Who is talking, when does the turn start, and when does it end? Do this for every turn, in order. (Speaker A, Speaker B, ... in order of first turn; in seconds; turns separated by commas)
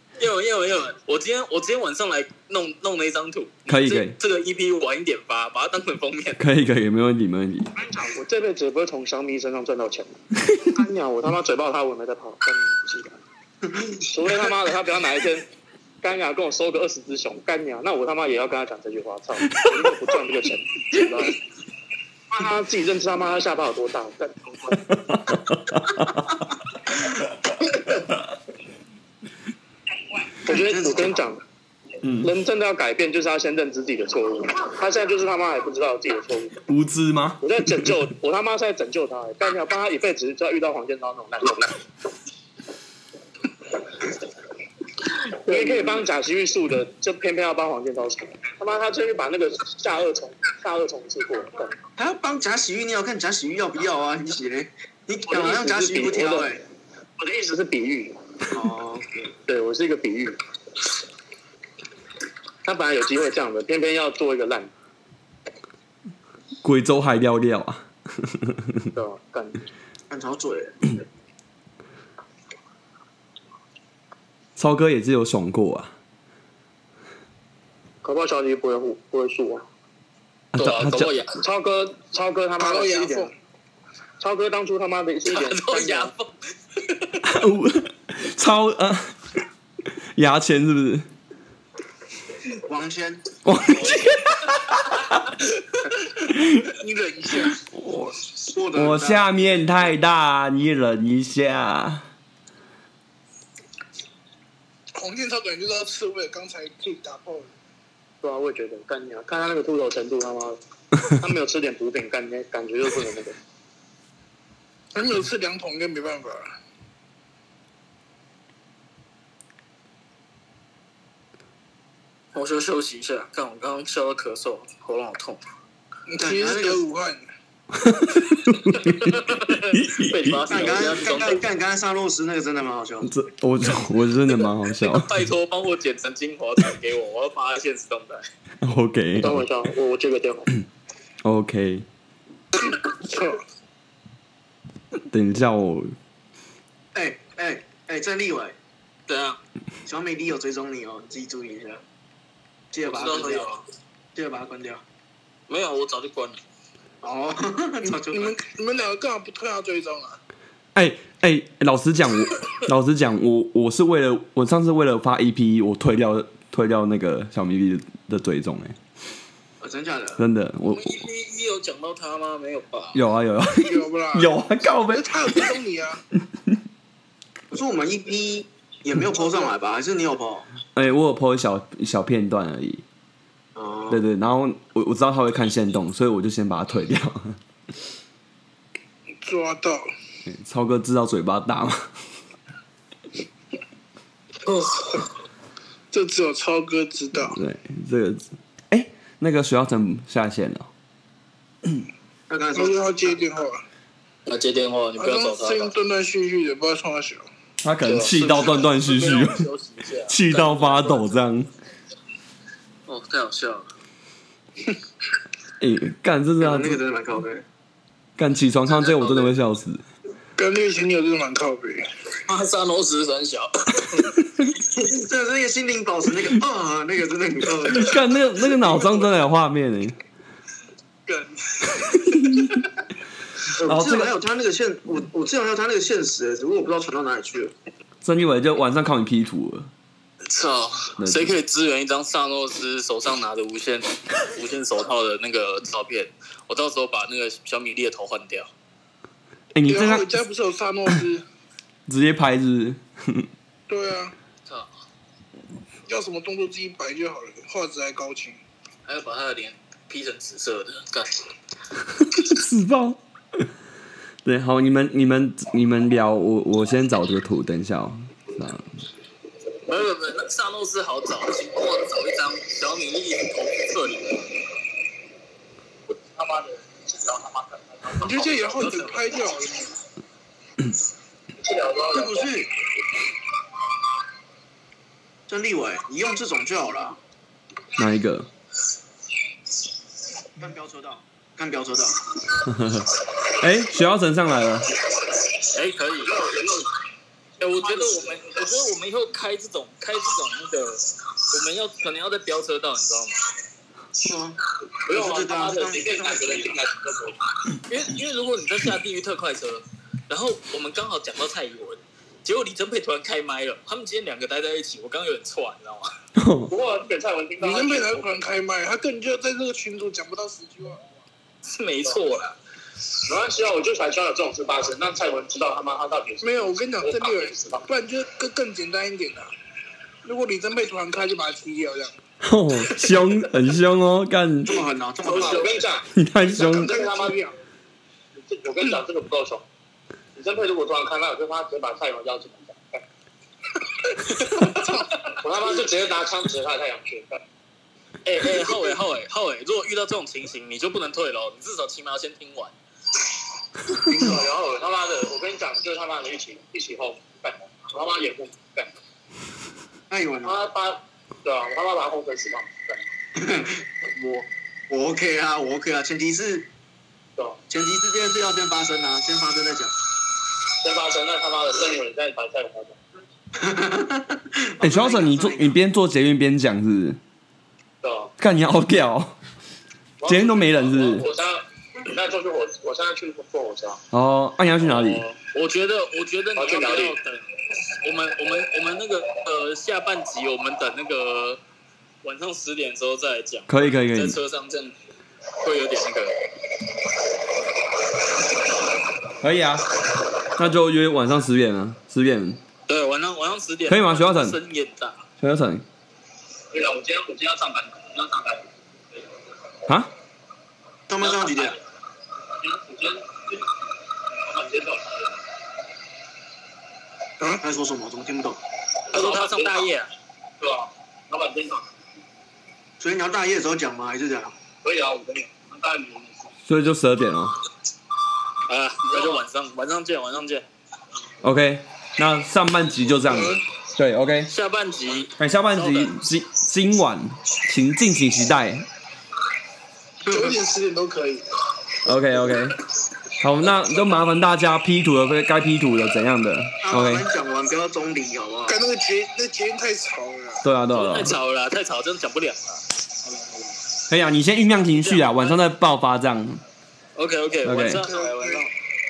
Speaker A: 0.2-6.4, Speaker B: 3.7-4.1, Speaker B: 6.4-7.7, Speaker C: 7.8-13.2, Speaker D: 13.7-14.1, Speaker C: 14.0-15.5, Speaker C: 16.0-21.4, Speaker C: 22.4-24.8, Speaker B: 25.3-25.8, Speaker C: 30.4-31.4, Speaker D: 30.5-31.1, Speaker B: 32.0-32.3, Speaker C: 32.2-36.6, Speaker B: 36.7-37.9, Speaker C: 37.4-41.8, Speaker C: 45.4-51.7, Speaker D: 52.0-56.6, Speaker C: 55.3-56.5, Speaker C: 57.2-58.2, Speaker D: 58.5-59.3, Speaker C: 59.5-60.4, Speaker C: 62.6-64.7, Speaker B: 66.6-68.8, Speaker C: 68.9-69.7, Speaker D: 70.1-70.9, Speaker B: 74.6-75.9, Speaker C: 78.0-79.6, Speaker B: 80.5-81.1, Speaker A: 80.5-81.4, Speaker C: 81.3-83.3, Speaker E: 82.6-83.3, Speaker C: 84.2-86.1, Speaker A: 85.3-87.2, Speaker B: 87.2-89.2, Speaker B: 90.2-91.1, Speaker D: 92.6-93.2, Speaker B: 93.4-95.1, Speaker B: 96.3-96.7, Speaker E: 96.7-97.6, Speaker B: 97.7-98.2, Speaker D: 98.5-99.6, Speaker B: 98.7-102.1, Speaker E: 104.9-107.5, Speaker C: 108.2-113.3, Speaker E: 114.9-116.5, Speaker A: 122.3-125.4, Speaker E: 126.1-127.3, Speaker D: 126.2-126.8, Speaker B: 127.7-130.4, Speaker A: 128.8-131.5, Speaker D: 130.5-133.1, Speaker B: 133.0-135.2, Speaker A: 134.2-138.3, Speaker B: 138.6-139.5, Speaker C: 139.2-140.5, Speaker B: 141.2-141.8, Speaker E: 142.5-143.4, Speaker B: 145.1-145.9, Speaker D: 146.9-148.6, Speaker A: 149.1-149.4, Speaker D: 149.8-151.8, Speaker D: 152.7-153.5, Speaker A: 152.8-153.6, Speaker D: 154.1-154.8, Speaker A: 155.5-156.4, Speaker D: 157.0-158.4, Speaker E: 158.1-160.2, Speaker B: 160.7-168.8, Speaker D: 169.6-170.2, Speaker B: 170.2-170.9, Speaker A: 170.7-173.0, Speaker B: 172.9-175.5, Speaker E: 173.5-176.0, Speaker D: 177.5-180.4, Speaker B: 180.7-182.8, Speaker D: 183.5-184.0, Speaker B: 183.9-187.4, Speaker E: 189.2-189.9, Speaker B: 190.3-191.9, Speaker A: 194.5-195.0, Speaker E: 195.9-197.4, Speaker B: 197.3-200.7, Speaker D: 202.3-203.2, Speaker E: 202.5-203.6, Speaker A: 204.3-205.7, Speaker E: 205.0-207.2, Speaker B: 207.6-209.5, Speaker A: 207.8-211.0, Speaker B: 210.1-211.5, Speaker A: 212.9-213.7, Speaker B: 215.6-216.8, Speaker D: 216.4-217.4, Speaker B: 218.2-219.8, Speaker A: 218.8-219.3, Speaker E: 220.4-221.8, Speaker A: 222.2-224.2, Speaker D: 224.6-228.0, Speaker B: 227.7-230.0, Speaker A: 228.7-229.0, Speaker A: 231.1-232.1, Speaker B: 232.1-232.5, Speaker D: 233.6-237.5, Speaker B: 233.6-234.2, Speaker B: 238.0-239.7, Speaker A: 240.3-248.5, Speaker B: 241.0-241.3, Speaker B: 249.5-250.1, Speaker E: 249.7-251.2, Speaker B: 251.9-253.3, Speaker E: 253.7-254.1, Speaker A: 254.5-254.7, Speaker E: 255.9-258.4, Speaker A: 258.9-261.2, Speaker B: 262.1-263.4, Speaker B: 264.2-268.7, Speaker A: 269.6-274.3, Speaker C: 275.9-278.7, Speaker E: 278.0-279.7, Speaker C: 281.4-282.3, Speaker D: 281.9-282.5, Speaker D: 285.3-287.0, Speaker B: 287.8-288.3, Speaker D: 290.4-292.0, Speaker B: 292.4-294.7, Speaker A: 295.4-296.1, Speaker C: 296.1-296.7, Speaker A: 297.4-303.2, Speaker C: 297.8-298.1, Speaker D: 304.0-304.4, Speaker C: 304.9-307.2, Speaker D: 304.9-306.5, Speaker A: 307.7-315.9, Speaker B: 316.1-316.5, Speaker C: 316.5-318.2, Speaker E: 317.4-320.9, Speaker A: 321.4-322.3, Speaker C: 323.0-327.6, Speaker E: 326.2-329.3, Speaker E: 330.0-331.9, Speaker B: 332.2-334.6, Speaker D: 334.4-335.6, Speaker C: 335.0-337.2, Speaker B: 335.9-336.8, Speaker E: 336.4-337.4, Speaker C: 338.1-339.4, Speaker C: 340.1-342.8, Speaker C: 344.2-344.5, Speaker C: 345.1-347.2, Speaker A: 348.0-352.5, Speaker D: 353.8-354.2, Speaker C: 353.9-358.7, Speaker D: 359.9-360.4, Speaker C: 360.2-362.8, Speaker D: 363.2-366.5, Speaker D: 367.5-369.7, Speaker C: 370.6-372.8, Speaker D: 373.4-375.5, Speaker B: 374.6-377.0, Speaker C: 377.8-378.1, Speaker B: 378.2-379.1, Speaker C: 380.0-383.8, Speaker B: 380.1-381.1, Speaker B: 383.9-385.0, Speaker A: 384.6-387.2, Speaker C: 386.4-387.0, Speaker A: 387.8-391.4, Speaker A: 392.0-394.7, Speaker B: 393.5-394.2, Speaker A: 395.4-396.2, Speaker B: 399.2-399.7, Speaker B: 400.3-402.4, Speaker A: 402.7-405.0, Speaker B: 403.7-404.4, Speaker B: 405.2-405.6, Speaker C: 406.5-408.5, Speaker D: 410.9-411.6, Speaker A: 411.0-411.4, Speaker C: 412.4-413.4, Speaker C: 414.2-415.1, Speaker D: 417.4-418.4, Speaker C: 418.9-419.6, Speaker A: 418.9-419.9, Speaker C: 420.4-421.7, Speaker D: 422.8-424.3, Speaker C: 424.6-426.3, Speaker B: 426.4-427.4, Speaker A: 428.5-430.4, Speaker B: 431.2-434.3, Speaker E: 433.1-433.4, Speaker A: 434.3-435.9, Speaker B: 435.2-438.7, Speaker E: 440.1-441.2, Speaker D: 440.1-440.4, Speaker B: 441.8-442.6, Speaker B: 443.2-447.0, Speaker D: 446.6-448.6, Speaker E: 448.5-450.4, Speaker B: 450.4-451.2, Speaker A: 450.7-452.6, Speaker B: 453.9-456.4, Speaker A: 454.8-455.4, Speaker A: 456.9-458.5, Speaker B: 457.4-457.9, Speaker E: 457.8-458.5